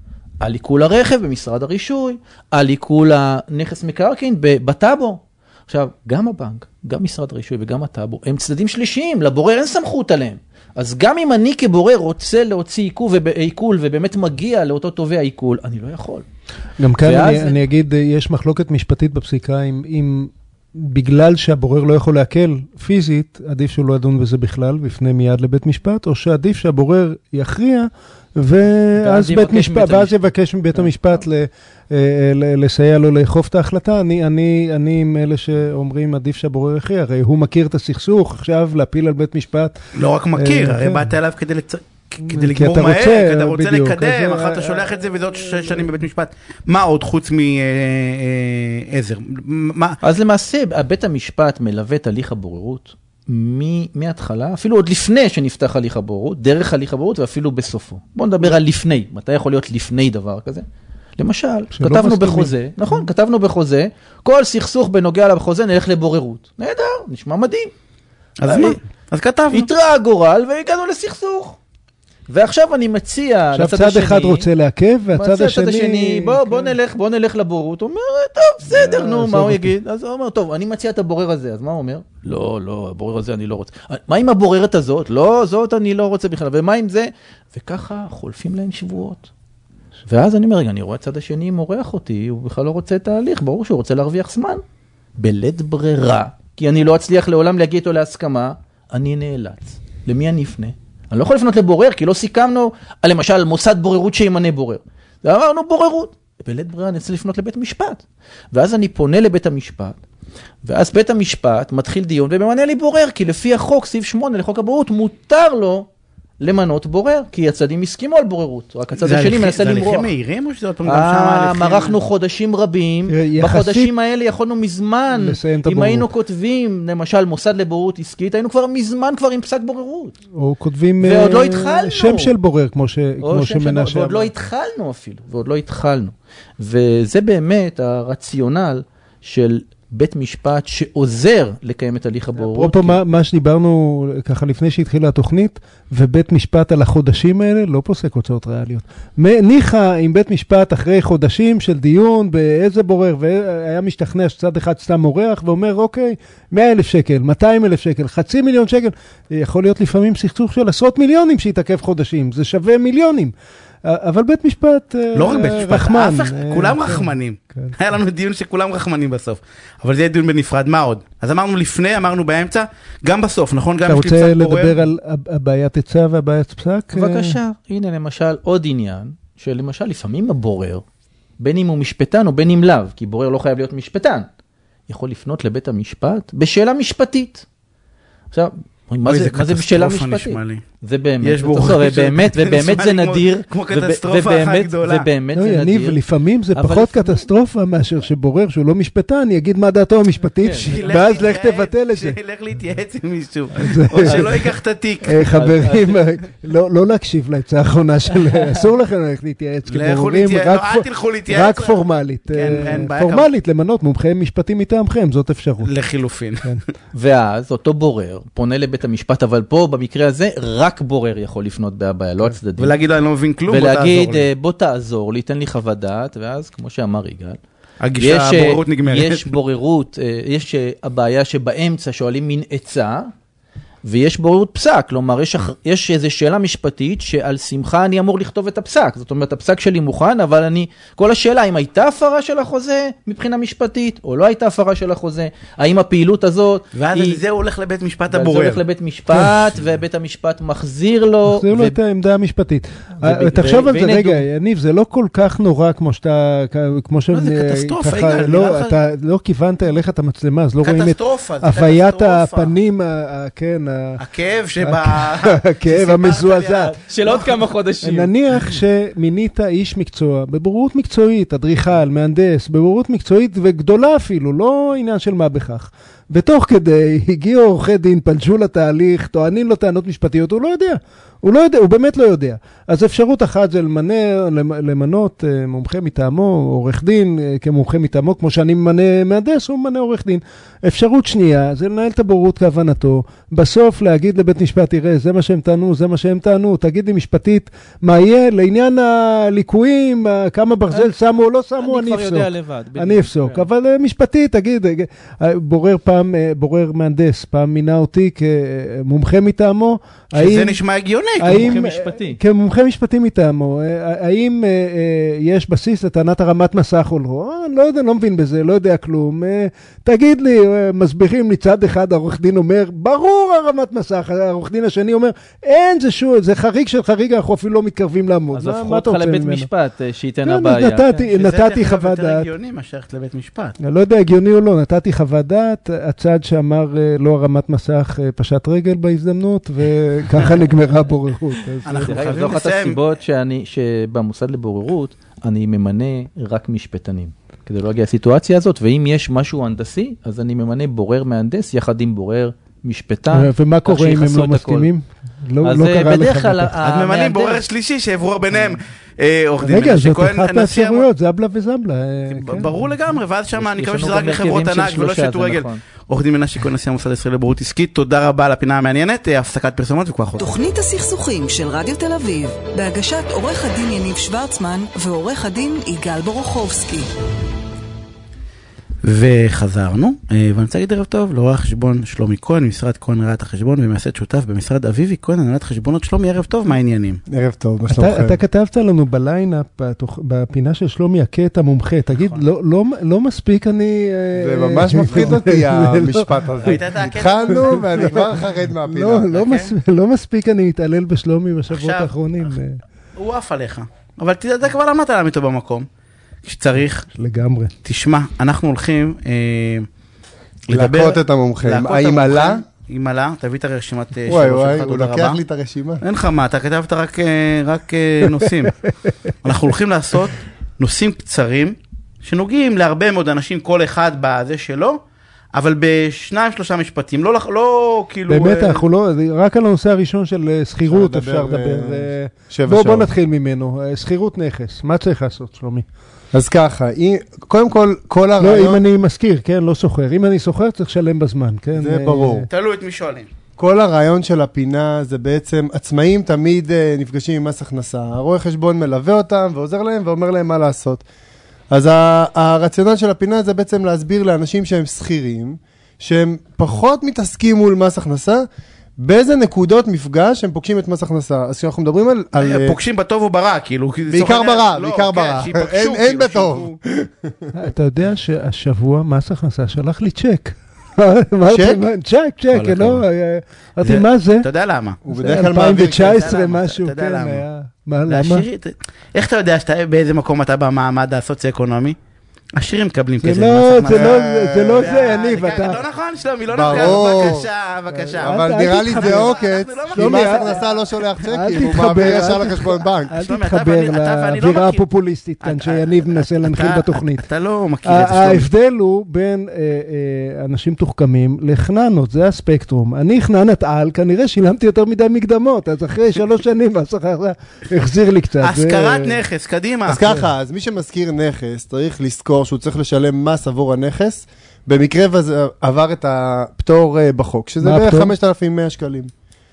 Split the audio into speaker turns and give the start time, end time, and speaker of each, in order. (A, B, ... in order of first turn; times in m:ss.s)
0:00.4-0:16.2 A
0:16.8-0:39.8 B
0:17.0-0:17.6 A
0:29.0-0:30.2 A
0:39.9-0:50.0 C
0:40.4-0:41.1 B
0:42.2-0:46.0 B
0:50.0-1:00.7 A
1:01.2-1:07.7 A
1:01.7-1:03.1 B
1:08.4-1:09.7 C
1:08.4-1:08.8 A
1:09.5-1:11.6 A
1:12.3-1:14.5 A
1:13.5-1:16.7 B
1:15.1-1:29.3 A
1:18.7-1:19.7 B
1:30.1-1:34.6 A
1:35.2-1:50.0 A
1:50.6-1:55.9 A
1:56.4-2:00.1 A
1:59.0-2:02.0 C
2:00.8-2:10.2 A
2:03.1-2:03.9 B
2:05.1-2:06.1 B
2:10.3-2:14.3 B
2:11.0-2:12.3 A
2:13.2-2:23.0 A
2:22.4-2:43.3 B
2:43.8-2:47.8 B
2:45.1-2:54.8 C
2:53.8-2:57.4 B
2:56.9-3:00.8 A
3:01.4-3:04.3 A
3:04.9-3:07.4 A
3:08.3-3:16.0 A
3:09.1-3:10.6 C
3:11.2-3:15.1 C
3:15.3-3:22.2 B
3:16.5-3:17.2 A
3:20.4-3:20.7 A
3:20.6-3:25.3 C
3:23.6-3:24.5 B
3:24.0-3:24.5 A
3:25.0-3:35.7 B
3:25.3-3:26.0 A
3:29.7-3:33.3 C
3:35.6-3:36.5 C
3:36.9-3:42.7 A
3:42.6-3:44.3 C
3:43.5-3:47.4 A
3:47.8-3:49.4 C
3:48.0-3:53.1 A
3:53.8-4:07.2 A
4:06.7-4:08.6 C
4:08.1-4:11.8 A
4:09.1-4:09.5 B
4:11.3-4:24.0 B
4:13.0-4:14.2 A
4:17.1-4:18.7 C
4:20.6-4:22.5 C
4:24.0-4:27.2 C
4:24.6-5:10.6 B
4:26.8-4:28.5 A
5:01.6-5:03.5 A
5:10.1-5:11.5 C
5:11.2-5:29.5 B
5:11.2-5:12.2 A
5:28.3-5:31.1 A
5:30.2-5:32.3 B
5:31.1-5:33.6 C
5:33.6-5:42.0 B
5:41.7-5:42.8 C
5:41.7-5:54.7 A
5:53.1-5:56.6 B
5:55.4-5:57.4 A
5:56.6-6:00.8 C
5:58.3-5:58.6 A
5:59.4-6:02.5 B
6:02.1-6:10.3 C
6:03.3-6:05.6 A
6:10.2-6:16.9 D
6:18.8-6:27.0 C
6:27.1-6:28.2 E
6:27.7-6:36.6 B
6:31.9-6:32.2 C
6:34.2-6:39.1 E
6:36.4-6:37.7 C
6:37.4-6:42.6 B
6:39.1-6:39.5 C
6:41.5-6:41.9 C
6:43.0-6:45.7 C
6:46.2-6:46.9 C
6:46.9-6:47.5 B
6:47.6-6:49.7 C
6:50.5-6:55.2 C
6:50.5-6:52.4 E
6:54.1-6:55.8 E
6:55.8-6:58.6 C
6:59.2-7:04.8 C
7:05.3-7:08.6 C
7:08.1-7:15.7 B
7:10.7-7:12.9 E
7:16.1-7:18.6 E
7:18.2-7:22.3 B
7:21.6-7:22.3 E
7:22.3-7:23.1 C
7:23.4-7:30.8 E
7:31.5-7:38.2 E
7:38.8-7:42.6 E
7:42.2-7:46.6 C
7:43.9-7:47.3 E
7:47.3-7:54.3 B
7:51.3-7:51.6 E
7:52.3-7:52.8 C
7:53.6-7:57.2 C
7:54.8-7:56.1 E
7:55.0-7:58.2 B
7:57.9-8:01.8 C
8:02.4-8:10.6 C
8:03.0-8:05.6 B
8:03.7-8:05.0 E
8:06.3-8:07.3 E
8:06.5-8:06.9 B
8:07.7-8:09.1 B
8:08.0-8:13.0 E
8:09.7-8:10.4 B
8:11.0-8:17.0 B
8:11.3-8:12.1 C
8:13.0-8:14.6 C
8:15.2-8:18.3 C
8:17.6-8:29.0 B
8:28.2-8:29.9 C
8:29.7-8:38.9 E
8:37.4-8:37.9 B